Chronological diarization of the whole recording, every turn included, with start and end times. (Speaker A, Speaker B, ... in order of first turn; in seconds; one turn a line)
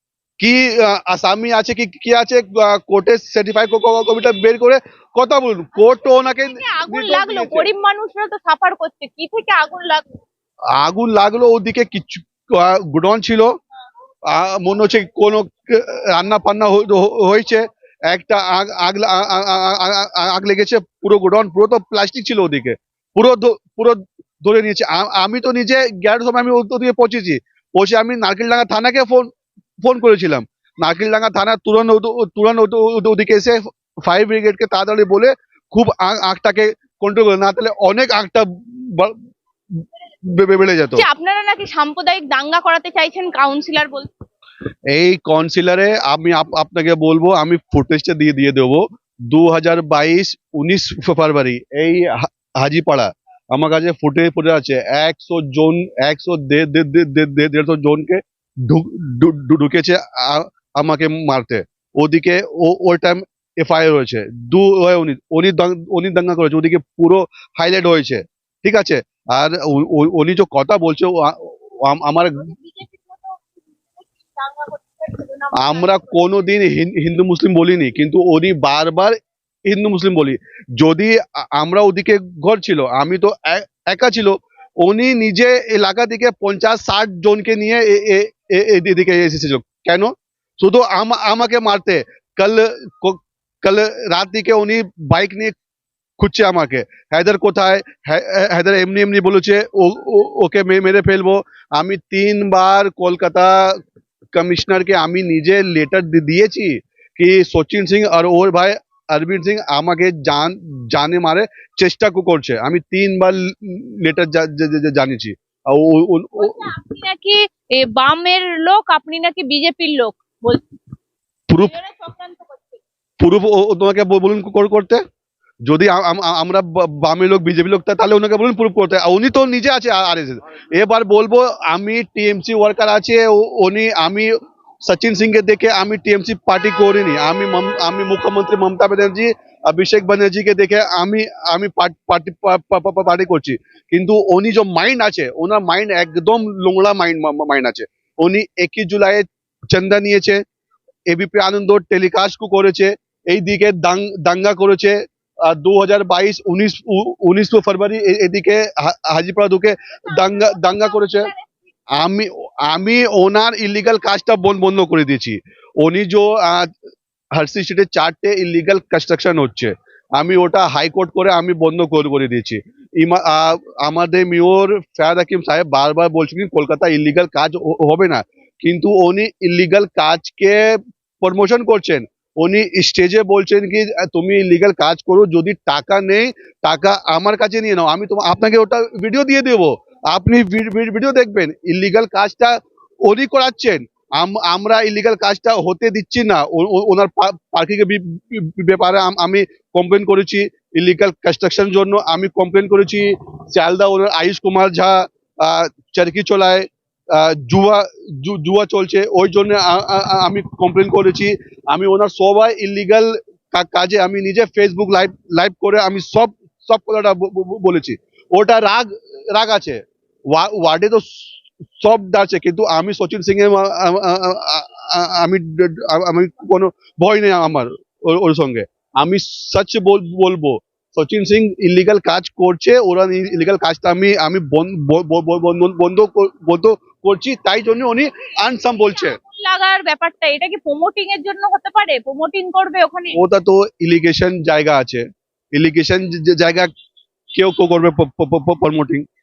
Speaker A: 0.4-7.7
Speaker B: 6.5-10.0
Speaker A: 10.7-13.5
Speaker A: 14.3-29.3
Speaker A: 29.8-39.1
Speaker A: 39.8-41.0
Speaker B: 40.9-44.1
Speaker A: 44.9-72.5
Speaker B: 72.3-76.4
Speaker A: 75.6-79.1
Speaker A: 79.7-95.5
Speaker A: 96.2-103.8
Speaker A: 104.3-116.6
Speaker B: 116.4-120.6
Speaker A: 121.5-121.8
Speaker B: 121.6-122.8
Speaker A: 123.2-125.0
Speaker A: 125.7-134.3
Speaker A: 134.8-150.4
Speaker A: 151.1-154.9
Speaker A: 155.5-161.3
Speaker B: 160.1-161.5
Speaker A: 162.0-166.7
Speaker A: 167.4-219.8
Speaker A: 220.3-221.2
Speaker A: 221.8-239.2
Speaker B: 238.8-243.2
Speaker A: 243.1-245.0
Speaker A: 245.5-246.7
Speaker A: 247.3-249.0